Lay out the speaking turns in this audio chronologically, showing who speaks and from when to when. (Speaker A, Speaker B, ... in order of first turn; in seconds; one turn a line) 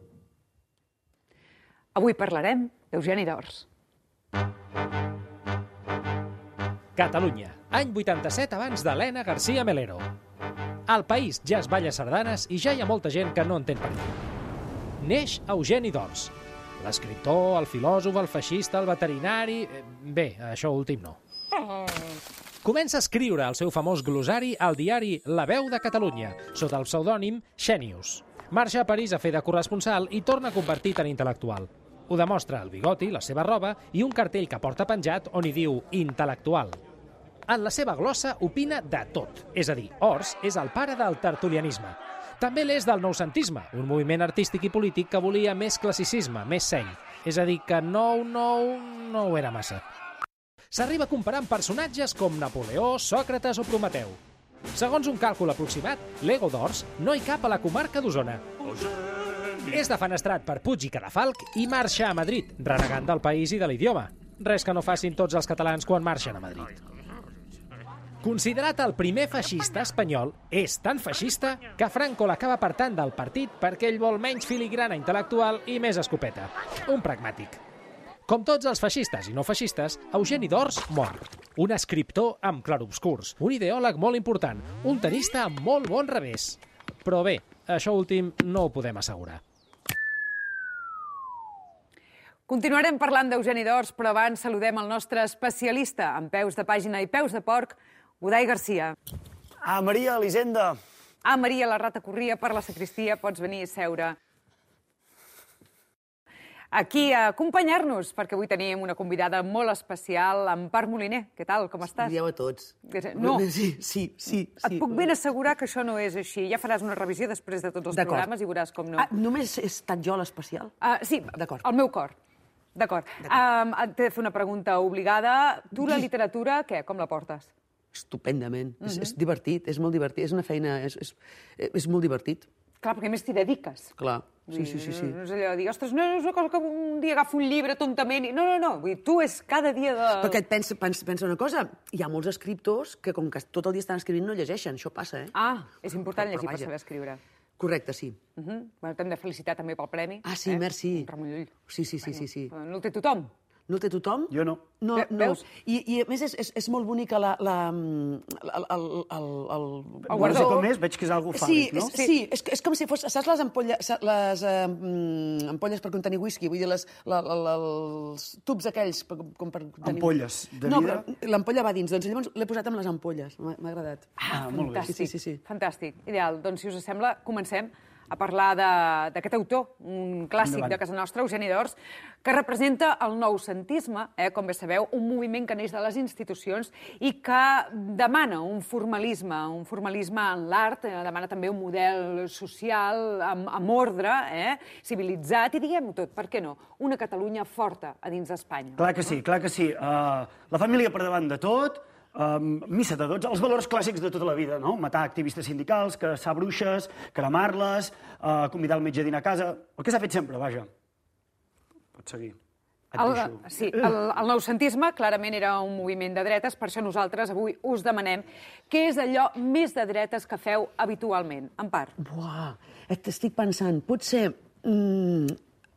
Speaker A: 1.9-3.7
Speaker B: 7.0-10.0
Speaker B: 10.9-14.2
Speaker B: 15.0-21.2
Speaker B: 22.6-36.8
Speaker B: 37.5-49.8
Speaker B: 50.7-54.2
Speaker B: 54.7-58.4
Speaker B: 59.6-66.8
Speaker B: 68.2-77.6
Speaker B: 78.3-89.4
Speaker A: 92.5-99.0
Speaker C: 99.6-100.8
Speaker A: 101.2-104.2
Speaker A: 106.7-112.2
Speaker D: 111.9-115.0
Speaker A: 112.8-113.4
Speaker A: 114.6-119.1
Speaker D: 117.9-118.3
Speaker D: 119.0-120.7
Speaker A: 120.8-122.1
Speaker D: 121.3-121.7
Speaker A: 122.7-127.5
Speaker D: 125.8-126.0
Speaker D: 127.9-132.5
Speaker A: 128.8-129.1
Speaker A: 132.8-133.9
Speaker D: 134.0-135.2
Speaker A: 134.5-140.4
Speaker D: 140.2-145.3
Speaker A: 145.3-147.2
Speaker D: 146.1-146.7
Speaker D: 147.6-148.2
Speaker A: 148.3-151.5
Speaker D: 150.2-151.1
Speaker D: 151.7-152.5
Speaker A: 152.1-153.3
Speaker D: 153.7-160.8
Speaker C: 154.3-154.6
Speaker A: 154.9-155.4
Speaker C: 160.1-161.9
Speaker A: 160.1-160.6
Speaker D: 161.3-174.2
Speaker A: 161.9-162.1
Speaker C: 169.8-171.1
Speaker A: 174.2-198.9
Speaker C: 174.3-174.9
Speaker D: 174.8-175.4
Speaker C: 180.4-180.8
Speaker C: 198.8-210.7
Speaker C: 211.9-212.4
Speaker C: 212.9-213.4
Speaker A: 212.9-221.9
Speaker D: 222.0-225.4